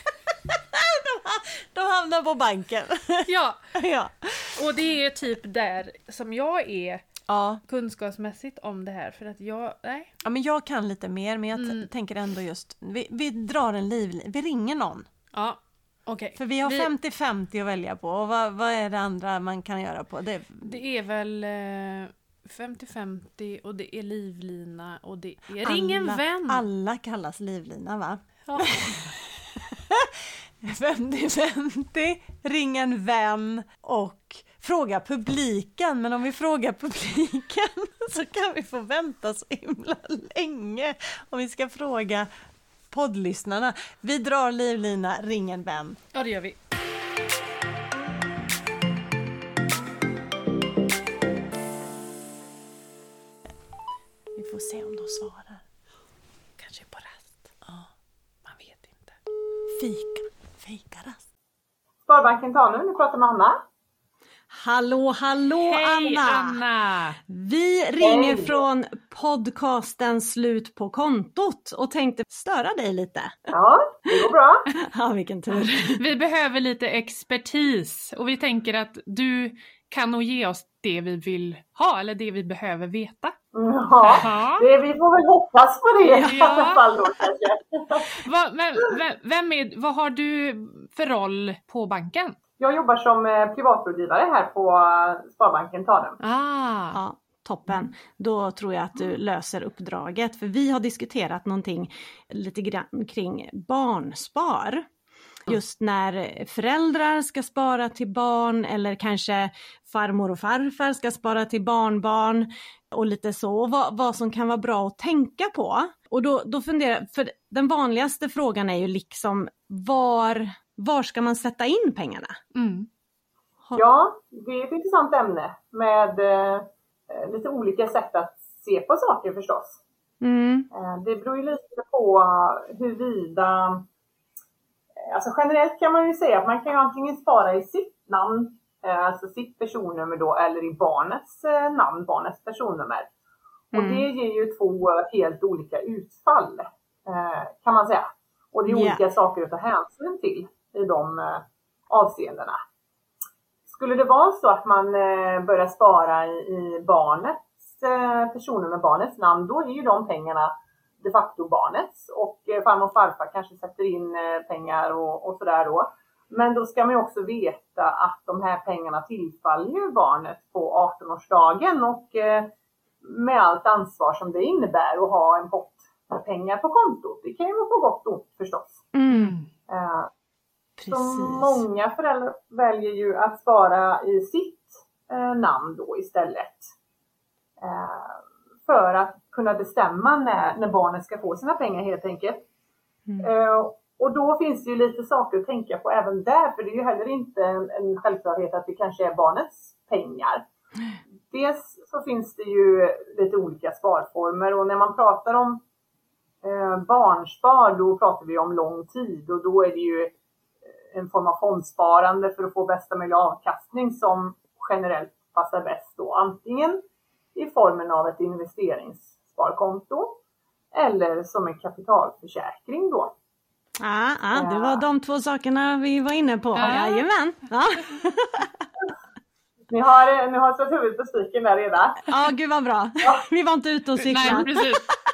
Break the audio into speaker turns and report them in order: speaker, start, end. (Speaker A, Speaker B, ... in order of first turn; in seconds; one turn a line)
Speaker A: 0.5-4.6
Speaker B: 3.3-3.7
Speaker B: 4.5-7.0
Speaker A: 7.3-7.6
Speaker B: 7.6-10.1
Speaker A: 10.2-15.1
Speaker B: 11.6-11.9
Speaker B: 15.3-16.9
Speaker A: 16.4-20.8
Speaker B: 20.6-26.6
Speaker A: 25.6-42.3
Speaker B: 28.5-29.0
Speaker A: 42.9-46.0
Speaker B: 46.1-46.6
Speaker A: 54.4-55.6
Speaker B: 56.6-57.5
Speaker B: 58.5-59.2
Speaker A: 59.7-61.2
Speaker C: 62.1-63.6
Speaker D: 64.5-66.6
Speaker B: 65.6-67.2
Speaker D: 67.3-73.4
Speaker C: 68.0-68.6
Speaker C: 73.5-74.7
Speaker D: 74.7-76.0
Speaker B: 75.9-83.3
Speaker C: 83.5-88.2
Speaker B: 84.0-84.7
Speaker B: 86.0-86.8
Speaker B: 88.1-92.4
Speaker C: 92.6-96.2
Speaker B: 96.2-97.0
Speaker D: 96.9-104.9
Speaker D: 105.5-122.4
Speaker B: 122.5-122.9
Speaker C: 123.7-129.8
Speaker D: 130.2-130.7
Speaker C: 130.7-133.8
Speaker C: 135.1-143.1
Speaker C: 143.7-152.6
Speaker D: 143.7-144.1
Speaker D: 148.7-149.0
Speaker C: 153.7-172.5
Speaker C: 173.0-178.8
Speaker D: 178.9-179.3
Speaker B: 179.1-179.5
Speaker C: 179.7-180.1
Speaker A: 180.8-181.6
Speaker C: 180.9-186.7
Speaker C: 187.6-192.4
Speaker C: 193.2-200.4
Speaker C: 201.3-205.6
Speaker C: 206.4-210.1
Speaker C: 210.9-216.8
Speaker C: 217.3-220.2
Speaker C: 220.7-223.1
Speaker D: 223.8-228.5
Speaker C: 224.3-224.9
Speaker B: 226.6-227.1
Speaker C: 229.7-232.1
Speaker D: 232.1-234.9
Speaker B: 234.1-234.9